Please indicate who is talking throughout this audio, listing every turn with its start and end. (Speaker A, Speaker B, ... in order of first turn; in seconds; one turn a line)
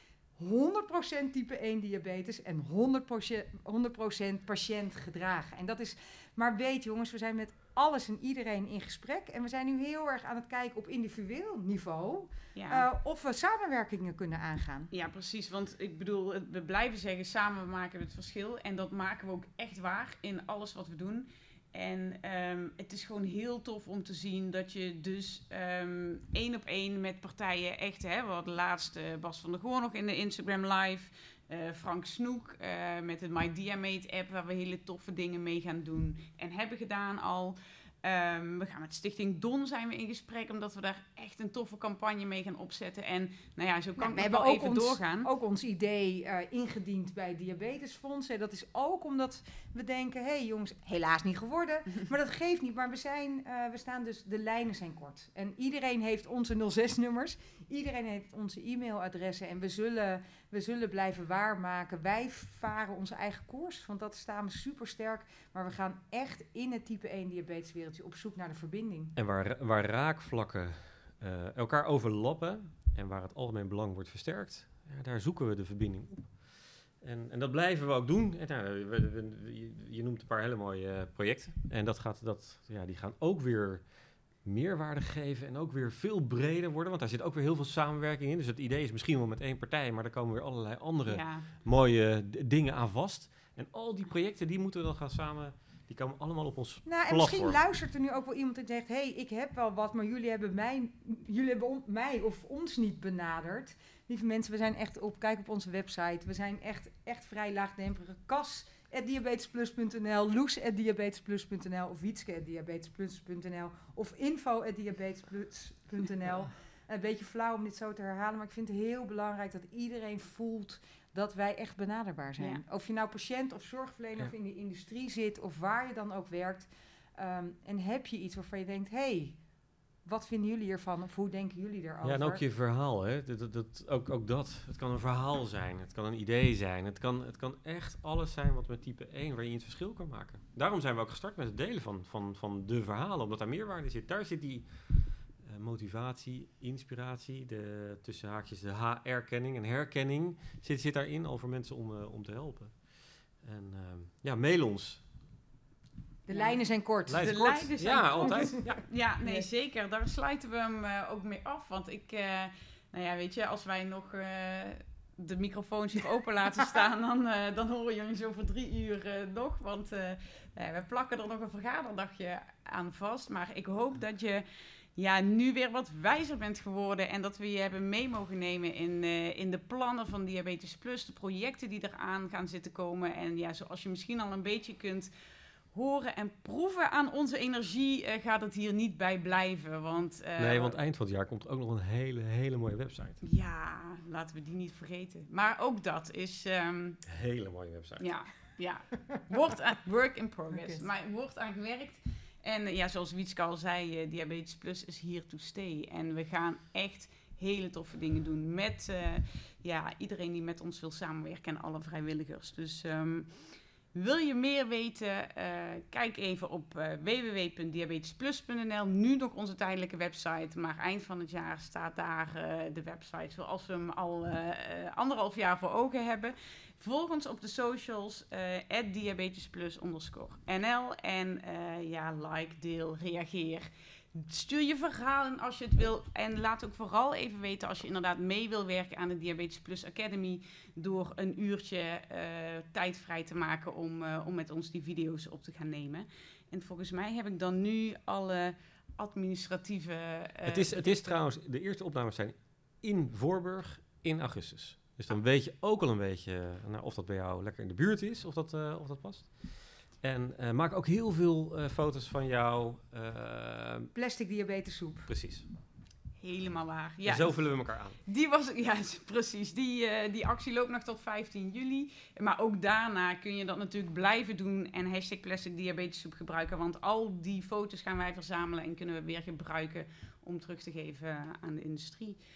Speaker A: 0.4-14.9
Speaker B: 12.5-12.8
Speaker B: 14.9-45.3
Speaker A: 44.0-69.1
Speaker C: 69.2-83.9
Speaker C: 84.4-97.6
Speaker B: 91.1-91.4
Speaker A: 96.8-129.4
Speaker A: 130.0-132.4
Speaker C: 132.0-152.8
Speaker C: 153.4-155.1
Speaker A: 156.3-158.6
Speaker B: 156.3-156.6
Speaker C: 157.1-158.8
Speaker B: 157.1-174.4
Speaker B: 174.9-185.1
Speaker B: 185.7-190.8
Speaker C: 190.4-193.2
Speaker B: 193.2-197.0
Speaker C: 197.1-198.1
Speaker B: 198.0-213.3
Speaker A: 200.5-200.8
Speaker B: 213.9-250.9
Speaker C: 250.4-263.9
Speaker A: 263.9-265.1
Speaker C: 265.1-265.4
Speaker B: 266.2-282.2
Speaker C: 267.0-268.0